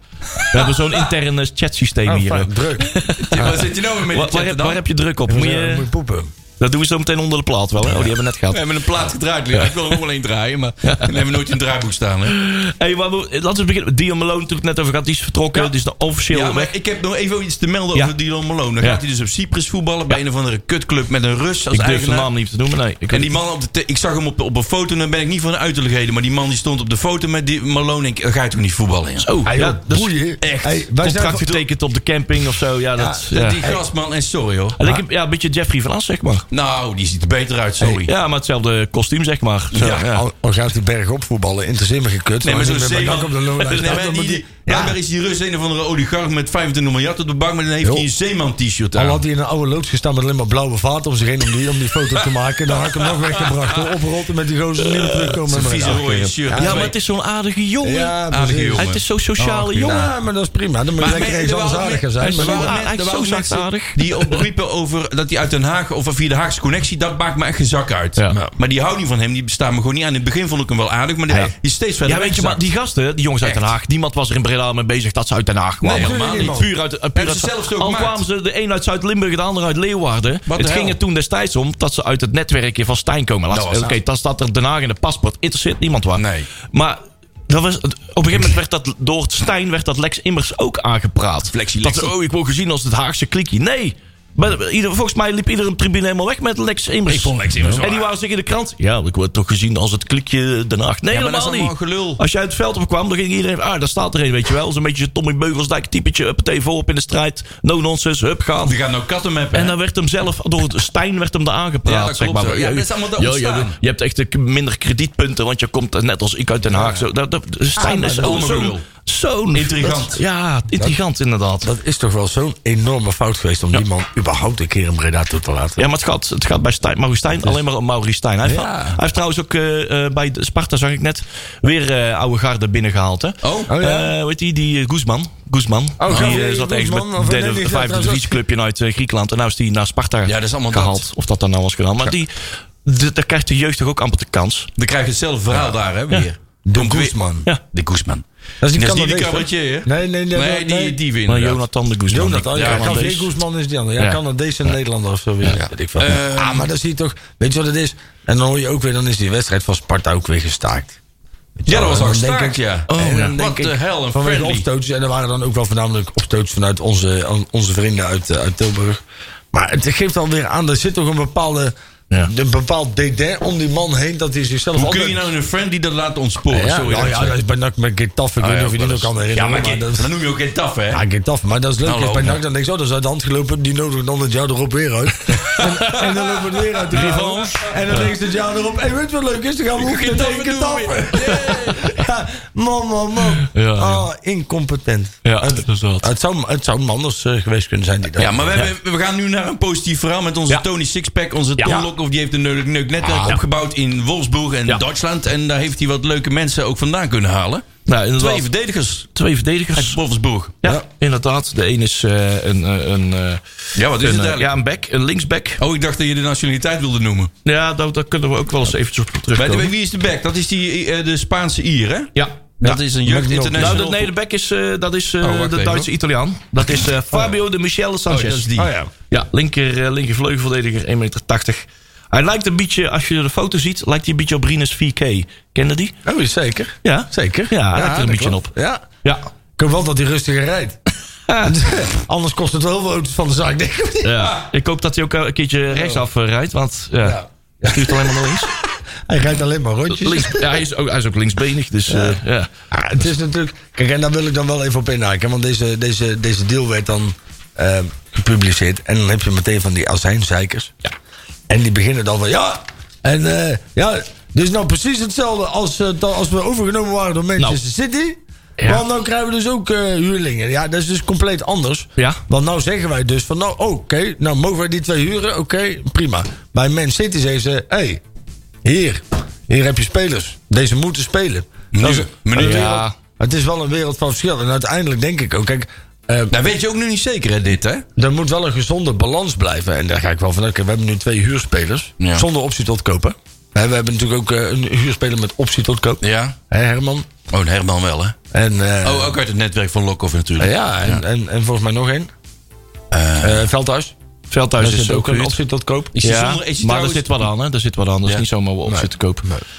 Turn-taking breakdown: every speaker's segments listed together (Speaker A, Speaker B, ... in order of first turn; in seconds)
Speaker A: 0.3-1.0, 3.2-4.8, 7.9-12.3, 16.3-22.3, 23.1-29.3, 30.4-31.6, 33.3-35.0, 36.5-38.1, 42.4-49.2, 52.1-54.0, 55.5-56.9, 58.3-60.1, 61.0-72.6, 73.4-73.7, 75.8-78.2, 80.5-81.0, 83.5-84.0, 86.2-86.5, 91.5-92.1, 97.1-98.1, 101.1-102.2, 108.6-109.7, 111.8-113.8, 118.0-118.8, 119.5-120.2, 133.4-133.7, 136.1-136.4, 140.2-141.0, 144.8-151.6, 152.5-153.0, 155.5-156.7, 161.7-164.6, 174.8-177.4, 178.4-181.0, 181.8-182.4, 185.3-186.2, 186.9-187.7, 189.7-191.9, 198.2-207.7, 208.2-209.1, 209.7-210.6, 213.8-214.5, 215.6-217.3, 219.3-224.1, 225.2-225.9, 228.1-228.7, 281.7-282.8, 286.3-287.8, 292.0-292.2, 296.0-296.4, 297.3-298.2, 298.8-301.0, 302.9-303.4, 305.9-307.2
Speaker B: 0.4-5.9, 6.6-8.6, 9.5-10.0, 10.8-11.1, 12.3-16.7, 21.7-23.3, 29.2-30.1, 31.0-33.7, 34.8-36.5, 37.8-40.2, 54.8-55.4, 56.5-58.2, 58.8-60.0, 62.2-64.4, 72.0-108.8, 109.5-121.7, 125.8-144.7, 151.3-153.3, 162.9-163.4, 186.9-188.1, 193.4-194.1, 195.2-196.1, 201.6-201.9, 207.9-208.5, 209.1-210.0, 210.6-213.4, 213.9-215.6, 217.4-219.7, 223.5-228.5, 229.1-235.9, 236.8-238.5, 241.3-241.6, 244.0-248.5, 249.9-252.5, 282.3-282.9, 304.3-305.4, 306.0-309.3
Speaker C: 2.0-2.9, 5.3-6.3, 29.4-31.5, 32.9-33.8, 39.8-45.0, 48.9-56.9, 57.8-62.7, 75.9-76.7, 116.7-117.0, 117.8-118.6, 121.6-125.8, 128.4-129.0, 133.7-134.1, 136.0-138.4, 146.7-147.5, 148.6-151.0, 152.1-161.0, 161.6-169.0, 169.5-175.2, 176.5-180.1, 180.9-198.6, 222.6-223.8, 228.6-228.9, 236.0-238.8, 239.6-240.8, 241.4-244.3, 245.7-246.0, 247.0-250.6, 251.9-252.2, 252.7-260.8, 261.5-278.0, 278.6-286.3, 287.9-297.1, 298.3-299.2, 300.4-302.1, 303.2-303.9, 304.6-305.9, 308.7-309.4